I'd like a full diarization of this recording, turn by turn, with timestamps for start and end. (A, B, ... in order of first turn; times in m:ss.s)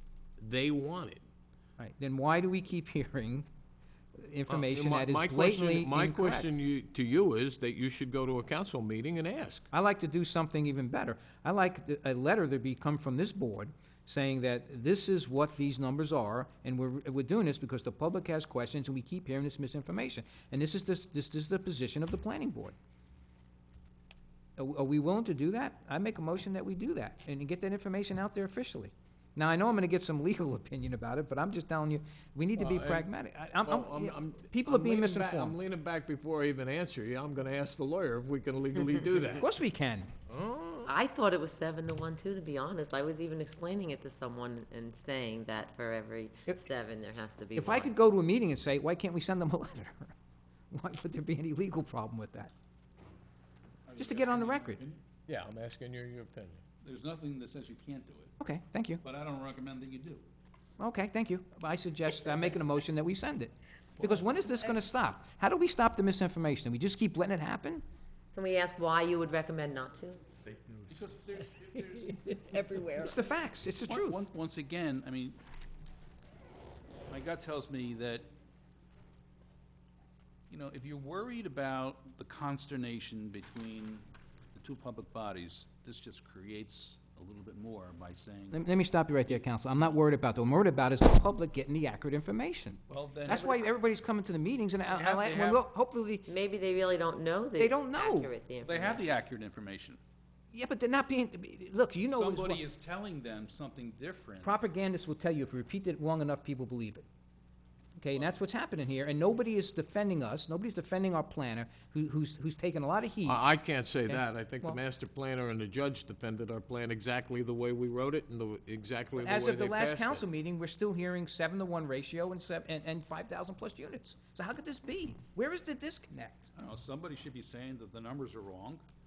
0:00.4-0:01.2 A
0:01.8-0:03.5 B
0:04.2-0:06.5 B
0:04.5-0:09.7 A
0:09.7-0:22.8 B
0:24.6-0:35.6 B
0:32.6-0:33.1 A
0:33.6-0:39.4 A
0:39.4-0:40.1 B
0:40.3-0:40.9 A
0:40.9-0:47.9 C
0:47.5-0:50.1 B
0:50.7-0:52.5 B
0:53.8-0:55.0 D
0:54.0-0:54.8 B
0:55.3-0:56.6 A
0:56.8-0:58.3 D
0:58.4-0:59.0 B
0:59.0-1:00.2 D
1:00.8-1:07.8 B
1:04.0-1:04.8 D
1:08.3-1:10.2 C
1:10.5-1:13.0 D
1:12.5-1:13.2 C
1:12.9-1:14.2 B
1:13.8-1:15.4 D
1:17.1-1:18.2 D
1:20.5-1:28.6 D
1:28.5-1:36.3 B
1:32.9-1:33.7 D
1:34.8-1:35.6 D
1:36.3-1:39.1 C
1:37.6-1:38.3 B
1:38.6-1:40.0 D
1:40.5-1:42.6 B
1:42.0-1:44.5 D
1:44.4-1:47.0 B
1:48.0-1:53.4 B
1:53.3-2:00.2 A
1:54.1-1:54.8 B
1:59.2-2:06.5 B
2:06.6-2:08.8 D